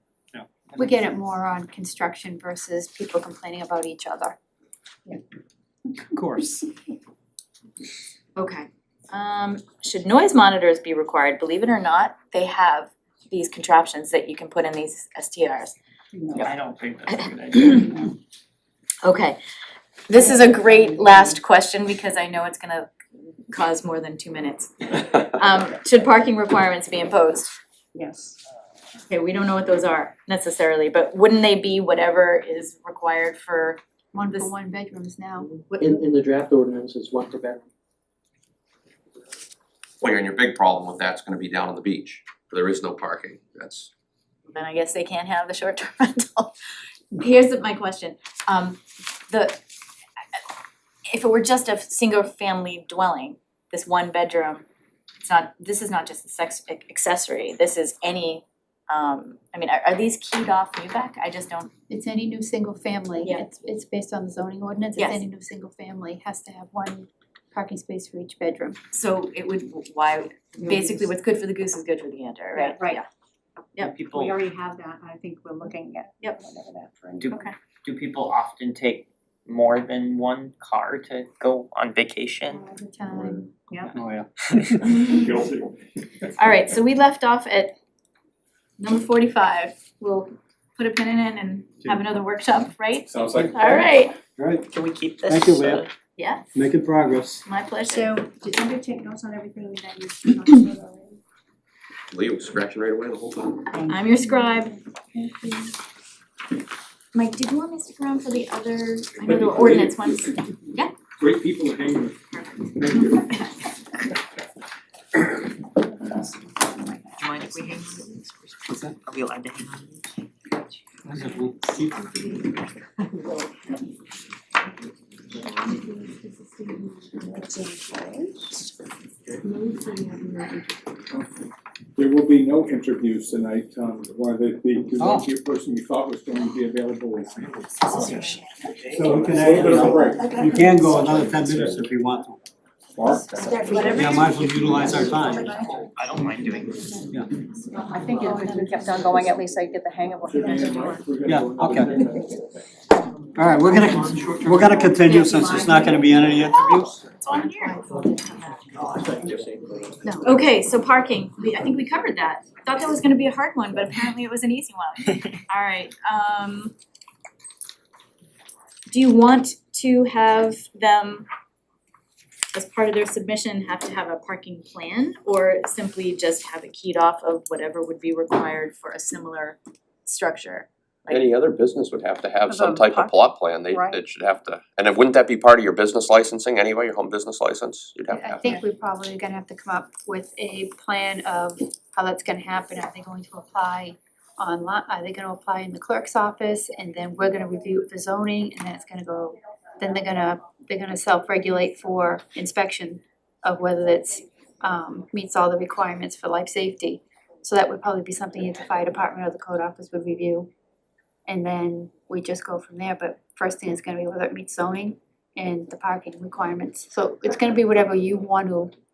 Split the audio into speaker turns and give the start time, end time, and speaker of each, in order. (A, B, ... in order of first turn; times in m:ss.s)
0:00.8-0:04.4 A
0:06.1-0:06.6 B
0:08.4-0:15.8 C
0:16.2-0:16.4 D
0:16.4-0:18.0 E
0:17.1-0:18.0 C
0:19.0-0:19.4 C
0:20.1-0:22.9 C
0:23.5-0:27.5 C
0:28.0-0:28.4 D
0:29.1-0:33.8 C
0:34.1-0:36.0 A
0:35.8-0:37.6 F
0:40.0-0:43.9 G
0:44.5-0:46.5 C
0:47.1-0:49.6 C
0:51.1-0:54.6 C
0:55.2-1:01.7 C
1:01.9-1:08.8 A
1:05.0-1:05.2 C
1:08.9-1:13.1 C
1:10.6-1:11.0 D
1:12.5-1:13.0 D
1:13.8-1:14.4 E
1:14.1-1:17.4 D
1:17.2-1:22.6 E
1:22.5-1:23.5 A
1:23.9-1:24.8 B
1:24.9-1:25.3 C
1:24.9-1:25.7 H
1:26.4-1:27.7 C
1:28.8-1:34.2 C
1:33.1-1:33.9 H
1:33.3-1:33.8 B
1:34.4-1:34.7 B
1:34.7-1:35.9 E
1:35.2-1:35.8 B
1:36.2-1:36.4 C
1:36.5-1:37.4 B
1:37.5-1:38.2 C
1:37.9-1:41.2 D
1:42.1-1:43.7 G
1:43.7-1:45.7 D
1:43.9-1:44.8 C
1:47.1-1:50.9 C
1:49.2-1:50.4 H
1:51.2-1:52.2 H
1:52.3-1:53.5 C
1:52.8-1:53.4 H
1:56.2-1:57.3 D
1:57.2-2:00.1 E
2:01.0-2:02.2 B
2:05.7-2:06.9 A
2:07.2-2:08.6 D
2:09.4-2:10.6 A
2:12.0-2:18.4 H
2:15.0-2:15.3 B
2:18.0-2:18.4 C
2:18.9-2:22.4 B
2:19.0-2:21.8 H
2:23.0-2:24.1 H
2:23.3-2:25.7 A
2:23.9-2:25.6 B
2:25.3-2:27.1 E
2:27.7-2:29.2 A
2:27.8-2:31.0 D
2:30.2-2:32.6 H
2:31.2-2:32.0 B
2:33.4-2:36.9 B
2:33.9-2:34.6 E
2:35.3-2:35.9 D
2:36.3-2:37.8 C
2:37.3-2:38.6 A
2:39.0-2:39.9 F
2:40.0-2:40.3 A
2:40.2-2:46.8 C
2:48.9-2:51.3 C
2:52.5-3:01.3 C
3:01.1-3:08.5 G
3:02.5-3:04.0 D
3:08.1-3:30.5 A
3:31.3-3:38.7 A